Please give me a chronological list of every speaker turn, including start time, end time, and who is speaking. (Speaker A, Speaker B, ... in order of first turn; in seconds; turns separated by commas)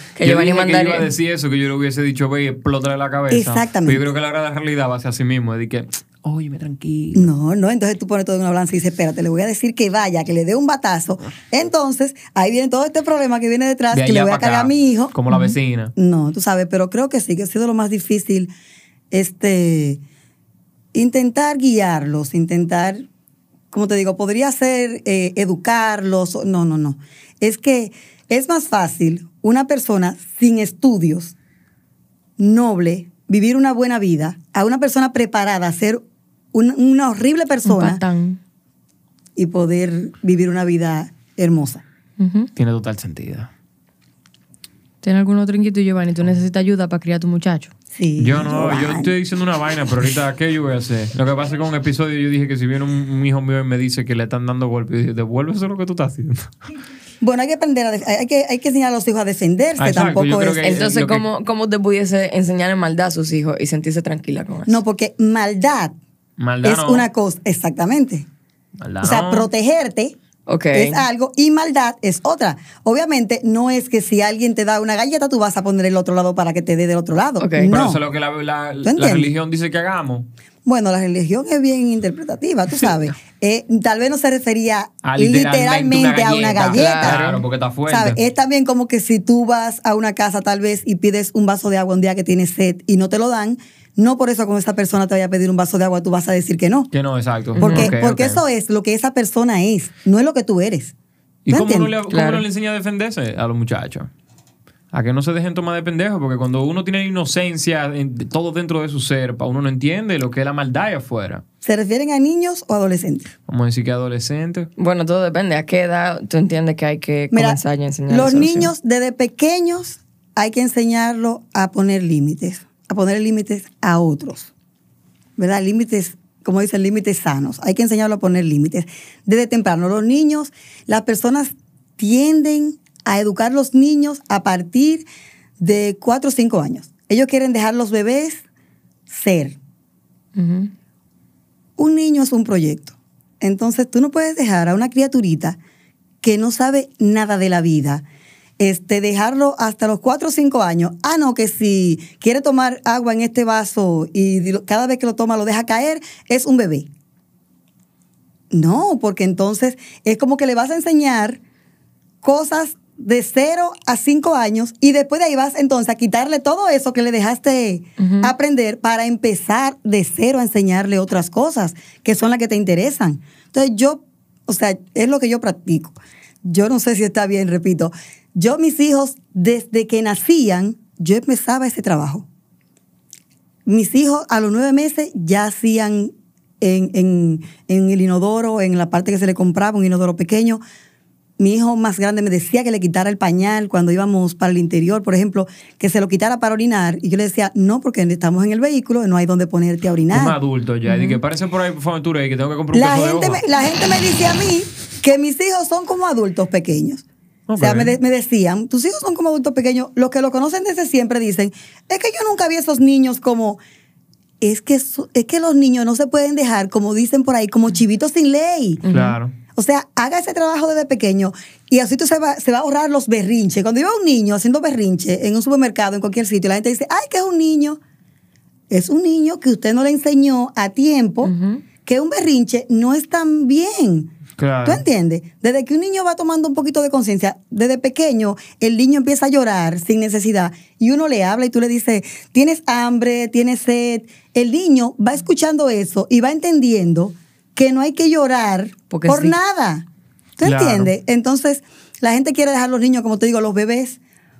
Speaker A: 0.1-1.1, Speaker B: 0.2-7.3, Speaker C: 3.3-4.0, Speaker C: 7.1-15.1, Speaker B: 13.9-15.9, Speaker C: 15.9-18.5, Speaker C: 19.1-20.0, Speaker C: 20.9-23.1, Speaker C: 23.7-31.3, Speaker C: 32.4-38.0, Speaker A: 37.6-38.4, Speaker C: 39.4-41.8, Speaker A: 42.2-42.5, Speaker B: 42.5-43.5, Speaker A: 45.0-47.7, Speaker C: 47.9-49.1, Speaker B: 48.2-56.5, Speaker C: 57.2-60.7, Speaker B: 59.8-61.2, Speaker A: 60.6-64.8, Speaker C: 64.7-66.0, Speaker B: 66.4-67.1, Speaker C: 66.6-68.3, Speaker B: 68.8-69.5, Speaker C: 69.0-70.2, Speaker A: 70.5-71.0, Speaker C: 70.7-78.0, Speaker A: 77.4-77.7, Speaker B: 77.7-80.3, Speaker C: 78.8-79.3, Speaker C: 80.6-87.2, Speaker B: 85.0-88.2, Speaker A: 86.7-87.4, Speaker C: 87.9-96.9, Speaker B: 96.9-98.4, Speaker A: 97.6-97.9, Speaker C: 97.6-100.9, Speaker B: 101.5-104.1, Speaker C: 101.5-101.9, Speaker A: 102.1-102.4, Speaker B: 104.9-111.4, Speaker C: 111.6-113.3, Speaker B: 113.5-114.7, Speaker A: 114.8-118.7, Speaker C: 117.3-124.5, Speaker C: 125.4-135.1, Speaker C: 135.6-138.4, Speaker C: 139.1-139.6, Speaker A: 140.3-140.7, Speaker C: 141.8-145.6, Speaker C: 146.2-148.0, Speaker C: 148.6-156.9, Speaker C: 158.5-161.4, Speaker C: 162.2-182.2, Speaker A: 168.0-168.3, Speaker C: 183.7-190.6, Speaker C: 191.4-200.4, Speaker B: 200.1-203.4, Speaker A: 200.8-201.2, Speaker C: 202.7-207.0, Speaker B: 207.5-207.9, Speaker C: 207.6-213.6, Speaker C: 214.4-218.8, Speaker A: 218.8-219.2, Speaker B: 218.9-219.3, Speaker C: 219.5-227.8, Speaker C: 228.7-231.3, Speaker A: 231.2-231.6, Speaker C: 231.8-234.1, Speaker B: 234.4-234.8, Speaker C: 234.7-249.8, Speaker A: 248.9-249.3, Speaker C: 250.4-254.0, Speaker B: 250.4-250.9